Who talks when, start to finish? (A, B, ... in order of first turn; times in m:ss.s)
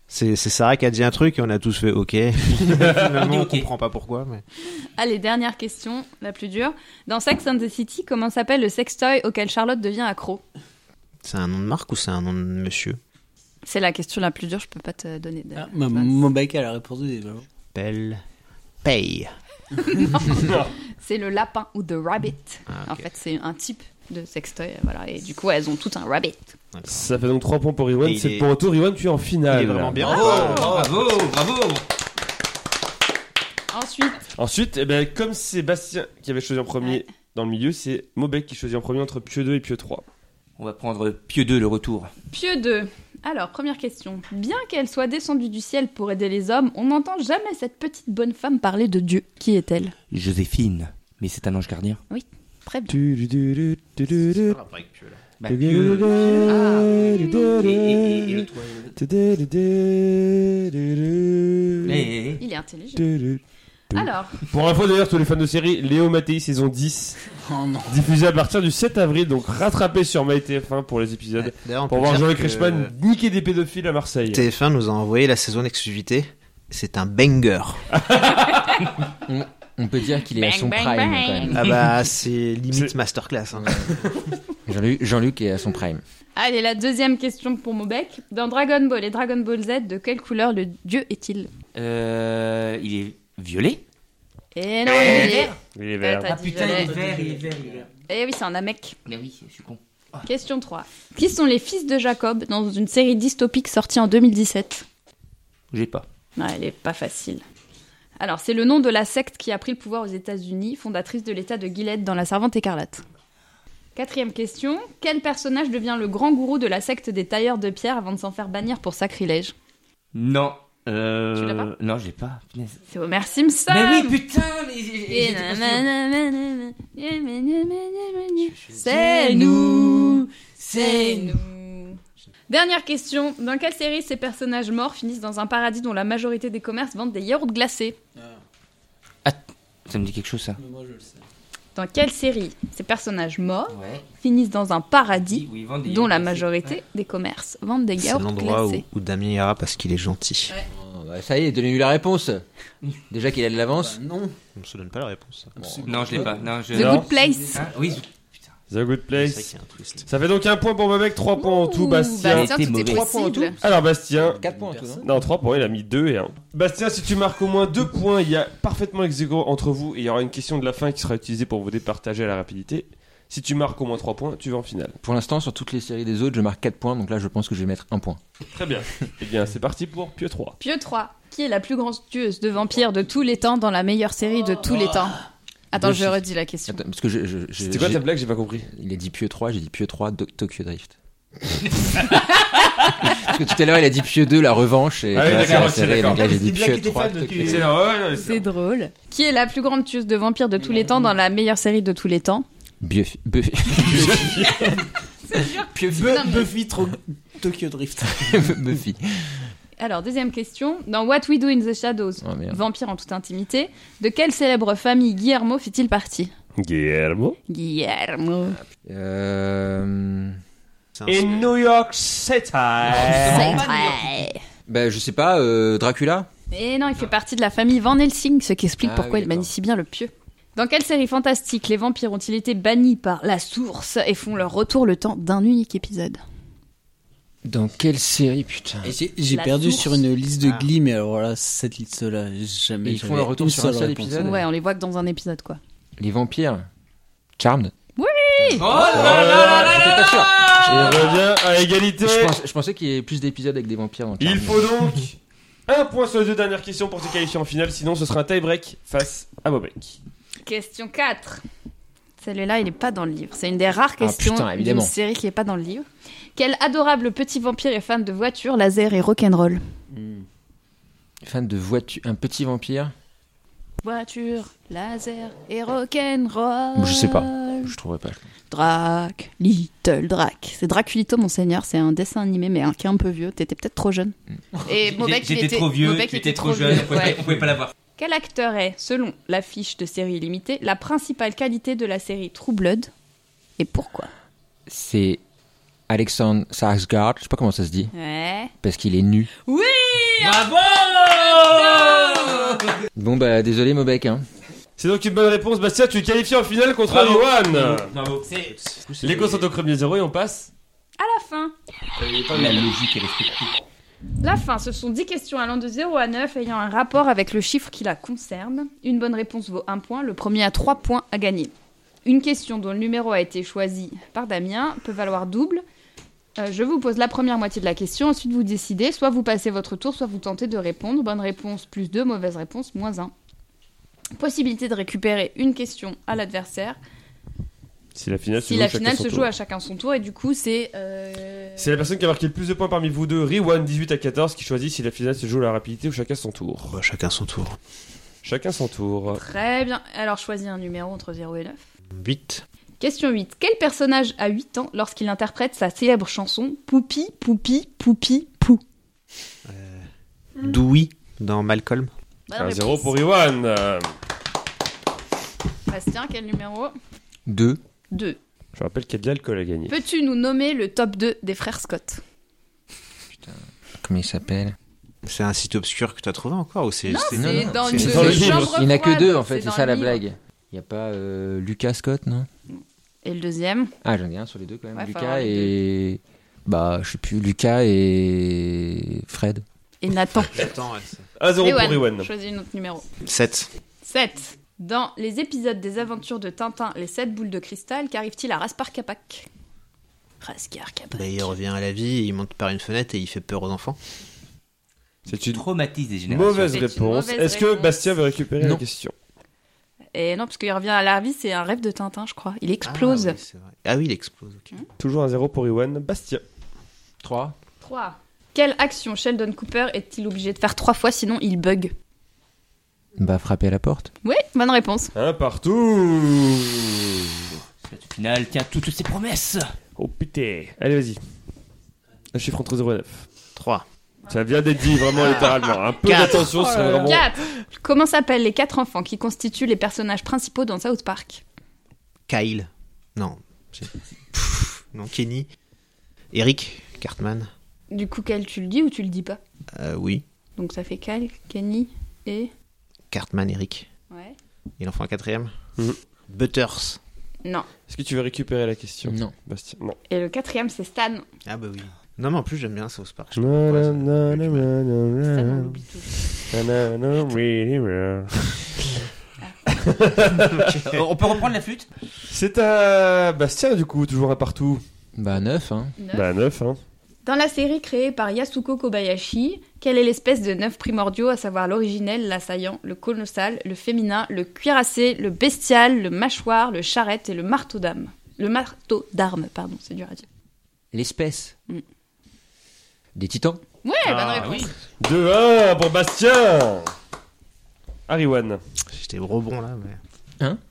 0:00.1-0:04.4 A
0:03.1-0:03.7 B
0:05.0-0:10.4 C
0:11.2-0:13.0 A
0:13.6-0:16.2 C
0:15.6-0:17.4 D
0:17.7-0:18.2 A
0:18.8-0:19.3 A
0:19.8-0:26.6 C
0:20.3-0:20.7 E
0:22.7-0:23.1 A
0:26.7-0:27.1 A
0:26.9-0:30.1 E
0:28.0-0:28.5 A
0:29.4-0:30.8 A
0:30.0-0:31.2 D
0:30.0-0:30.7 C
0:30.1-0:31.8 B
0:33.7-0:34.2 C
0:34.4-0:40.0 E
0:40.6-0:42.1 B
0:42.3-0:49.9 C
0:50.1-0:52.0 B
0:52.1-0:52.9 C
0:52.9-0:54.6 E
0:54.1-0:55.2 A
0:55.4-0:56.7 B
0:55.5-1:02.1 E
0:56.4-0:57.5 C
0:57.5-0:58.9 B
1:01.8-1:02.4 B
1:02.4-1:03.0 C
1:03.0-1:03.4 E
1:03.9-1:04.4 C
1:03.9-1:07.2 E
1:07.4-1:08.0 D
1:07.9-1:14.5 E
1:11.4-1:12.9 A
1:14.2-1:17.9 A
1:17.9-1:18.9 E
1:19.2-1:21.6 F
1:20.2-1:21.6 C
1:21.5-1:24.2 A
1:24.7-1:26.0 F
1:26.4-1:31.5 C
1:31.7-1:33.8 B
1:34.5-1:37.0 C
1:34.9-1:35.6 B
1:35.7-1:36.3 E
1:36.2-1:37.9 B
1:36.9-1:37.8 D
1:38.1-1:39.0 C
1:39.0-1:40.3 B
1:40.2-1:44.8 C
1:45.7-1:46.0 B
1:46.4-1:47.4 C
1:48.2-1:53.0 C
1:54.0-1:59.5 C
2:00.1-2:02.8 B
2:01.4-2:01.7 C
2:02.9-2:04.2 C
2:03.7-2:05.9 B
2:05.1-2:18.0 C
2:08.5-2:08.9 A
2:08.8-2:11.4 B
2:18.2-2:18.4 D
2:19.2-2:20.6 B
2:20.6-2:21.2 D
2:21.8-2:28.8 C
2:23.7-2:24.0 B
2:25.2-2:26.8 B
2:28.0-2:30.6 A
2:30.7-2:32.4 F
2:33.1-2:34.0 F
2:33.7-2:34.4 D
2:34.6-2:35.5 A
2:35.6-2:38.0 D
2:35.6-2:35.9 F
2:35.9-2:38.2 B
2:36.7-2:37.6 C
2:36.7-2:37.1 E
2:38.7-2:39.5 E
2:39.1-2:40.1 A
2:40.1-2:44.4 E
2:41.4-2:43.6 C
2:42.2-2:43.1 B
2:44.3-2:45.1 F
2:44.4-2:45.0 D
2:45.0-2:55.0 E
2:55.0-2:58.2 F
2:58.5-3:00.6 E
3:00.6-3:05.2 C
3:05.7-3:06.8 C
3:05.7-3:08.0 F
3:07.6-3:08.7 E
3:08.7-3:12.3 F
3:12.9-3:17.7 F
3:15.1-3:16.4 E
3:15.2-3:17.7 B
3:17.4-3:18.4 E
3:18.1-3:22.4 C
3:20.6-3:21.1 D
3:22.8-3:24.4 F
3:23.7-3:24.9 E
3:25.2-3:26.5 C
3:25.7-3:28.6 D
3:28.2-3:29.5 F
3:29.8-3:36.3 C
3:32.2-3:32.6 F
3:36.6-3:37.4 E
3:37.5-3:38.6 C
3:38.5-3:40.4 F
3:41.0-3:41.5 A
3:41.0-3:43.6 E
3:42.9-3:44.0 B
3:43.1-3:44.4 C
3:44.7-3:46.3 F
3:46.5-3:56.2 C
3:48.8-3:49.5 F
3:57.4-3:58.9 F
3:58.8-4:04.3 D
3:59.3-4:00.0 C
4:00.4-4:00.7 A
4:02.8-4:04.4 F
4:04.2-4:05.6 C
4:06.0-4:06.6 F
4:07.4-4:07.7 F
4:08.0-4:08.8 C
4:08.4-4:11.0 F
4:08.6-4:11.2 B
4:08.9-4:10.0 E
4:08.9-4:09.2 A
4:10.6-4:12.4 E
4:12.0-4:14.7 F
4:14.2-4:15.2 E
4:15.7-4:20.0 E
4:20.4-4:21.4 C
4:22.2-4:29.6 C
4:24.0-4:24.9 F
4:31.2-4:32.9 F
4:33.8-4:37.7 C
4:36.8-4:38.3 F
4:38.5-4:44.1 C
4:44.6-4:47.3 C
4:44.7-4:47.7 B
4:48.0-4:52.9 C
4:53.6-4:54.1 C
4:54.7-4:55.2 F
4:55.9-4:57.9 F
4:57.9-4:58.5 C
4:58.6-4:59.3 F
4:59.4-5:00.5 C
5:00.2-5:02.8 B
5:01.1-5:02.6 C
5:02.9-5:04.2 F
5:04.8-5:07.9 E
5:06.9-5:08.5 B
5:08.3-5:09.5 A
5:09.0-5:10.5 E
5:11.0-5:11.5 C
5:12.0-5:12.7 E
5:12.3-5:13.6 B
5:14.2-5:21.5 C
5:22.0-5:25.6 C
5:26.4-5:33.1 C
5:34.1-5:36.8 C
5:37.9-5:39.3 E
5:38.4-5:41.8 C
5:41.6-5:46.8 E
5:46.7-5:47.6 A
5:48.2-5:49.2 E
5:49.1-5:51.6 C
5:51.9-5:52.4 A
5:52.8-5:58.6 C
5:59.4-5:59.9 A
6:00.4-6:01.9 A
6:02.3-6:03.0 C
6:02.4-6:03.9 E
6:05.7-6:06.7 C
6:07.2-6:07.6 F
6:07.9-6:08.2 C
6:08.6-6:09.7 E
6:09.7-6:12.0 C
6:13.1-6:14.6 F
6:15.0-6:18.4 A
6:16.9-6:20.0 C
6:17.1-6:22.3 F
6:17.7-6:18.6 E
6:22.5-6:23.7 C
6:23.8-6:29.4 F
6:24.7-6:25.5 C
6:29.8-6:30.5 C
6:30.3-6:31.1 A
6:31.2-6:32.1 E
6:31.4-6:32.9 C
6:33.0-6:33.5 A
6:33.8-6:39.3 C
6:40.2-6:41.3 C
6:40.9-6:43.8 A
6:45.1-6:45.4 E
6:45.3-6:46.6 B
6:46.1-6:48.9 E
6:46.5-6:47.9 C
6:49.9-6:53.2 C
6:52.6-6:54.6 A
6:54.8-6:56.2 E
6:57.0-6:57.4 F
6:57.6-7:01.7 C
7:03.0-7:03.9 F
7:04.0-7:04.9 C
7:04.9-7:07.3 E
7:07.6-7:09.5 B
7:09.8-7:11.0 E
7:12.1-7:13.0 E
7:13.4-7:13.6 A
7:14.1-7:17.0 E
7:14.9-7:16.4 A
7:16.5-7:17.0 F
7:16.6-7:21.2 C
7:22.1-7:25.3 A
7:26.1-7:27.3 A
7:27.7-7:29.2 C
7:29.5-7:30.0 A
7:30.4-7:32.3 C
7:32.9-7:33.7 A
7:33.9-7:34.2 C
7:34.6-7:35.3 A
7:36.1-7:36.8 A
7:37.7-7:39.8 E
7:38.9-7:39.1 F
7:39.9-7:41.0 C
7:41.2-7:44.5 A
7:43.2-7:45.6 E
7:45.1-7:46.1 C
7:46.1-7:48.8 E
7:49.5-7:50.6 E
7:50.3-7:50.9 A
7:50.6-7:51.7 B
7:52.1-7:54.6 E
7:55.0-7:55.7 F
7:55.8-7:56.1 C
7:55.9-7:56.6 E
7:57.0-8:10.0 C
8:10.7-8:11.3 F
8:12.9-8:13.4 F
8:13.6-8:14.5 C
8:13.8-8:14.4 A
8:14.1-8:14.4 B
8:14.8-8:16.7 E
8:17.9-8:18.4 E
8:18.7-8:19.8 A